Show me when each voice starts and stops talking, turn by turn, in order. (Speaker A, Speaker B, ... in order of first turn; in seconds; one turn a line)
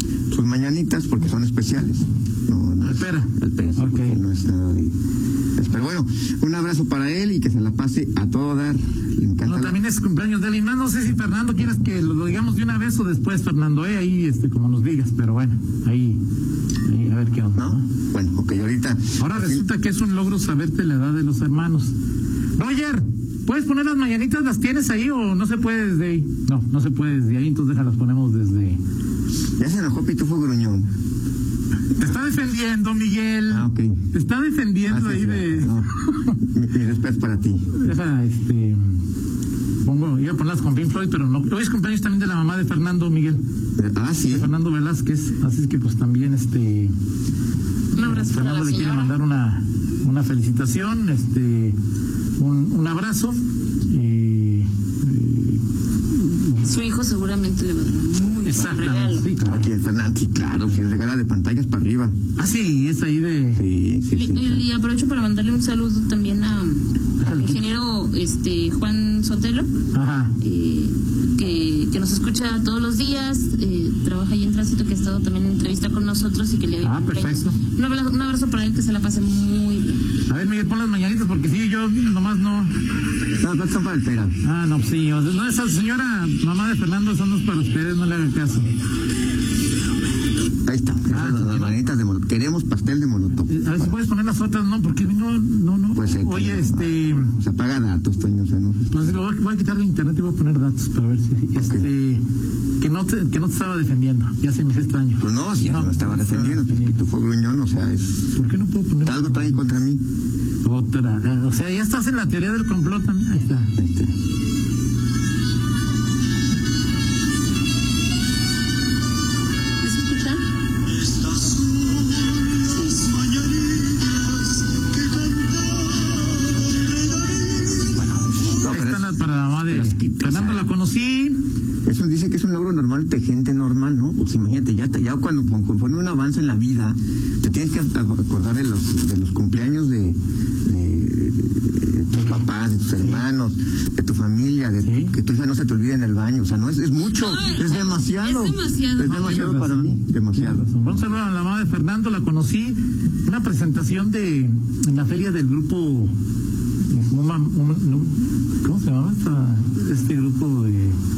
Speaker A: 0.3-4.9
Speaker B: 2.8-4.2
Speaker A: 5.6-9.8
Speaker B: 9.4-16.2
Speaker B: 16.8-17.9
Speaker A: 17.6-19.6
Speaker B: 19.2-21.9
Speaker B: 22.6-28.8
Speaker A: 29.6-30.9
Speaker B: 31.9-36.3
Speaker A: 33.5-34.0
Speaker A: 34.9-37.7
Speaker B: 37.7-39.0
Speaker B: 39.8-43.4
Speaker A: 43.8-44.5
Speaker B: 44.3-46.9
Speaker C: 47.9-49.1
Speaker B: 48.0-51.8
Speaker B: 52.4-56.7
Speaker C: 56.6-59.2
Speaker B: 58.4-59.7
Speaker A: 59.4-62.1
Speaker B: 62.4-63.6
Speaker A: 63.5-64.6
Speaker C: 64.1-69.7
Speaker B: 67.2-67.6
Speaker B: 69.9-70.3
Speaker C: 70.4-80.0
Speaker B: 76.8-77.6
Speaker B: 80.3-82.7
Speaker A: 83.4-84.3
Speaker B: 84.4-88.7
Speaker A: 90.7-94.0
Speaker B: 91.1-91.8
Speaker B: 93.5-97.3
Speaker A: 95.9-99.2
Speaker B: 98.9-102.2
Speaker A: 101.5-101.9
Speaker B: 102.8-107.0
Speaker A: 105.2-108.4
Speaker B: 108.3-109.6
Speaker A: 109.0-110.0
Speaker B: 110.6-113.7
Speaker A: 113.8-114.1
Speaker C: 119.8-120.4
Speaker A: 127.9-129.1
Speaker B: 128.6-131.4
Speaker A: 129.7-130.7
Speaker A: 131.8-151.0
Speaker B: 142.1-143.2
Speaker B: 144.8-145.1
Speaker C: 147.1-149.3
Speaker B: 149.0-156.1
Speaker B: 156.8-161.0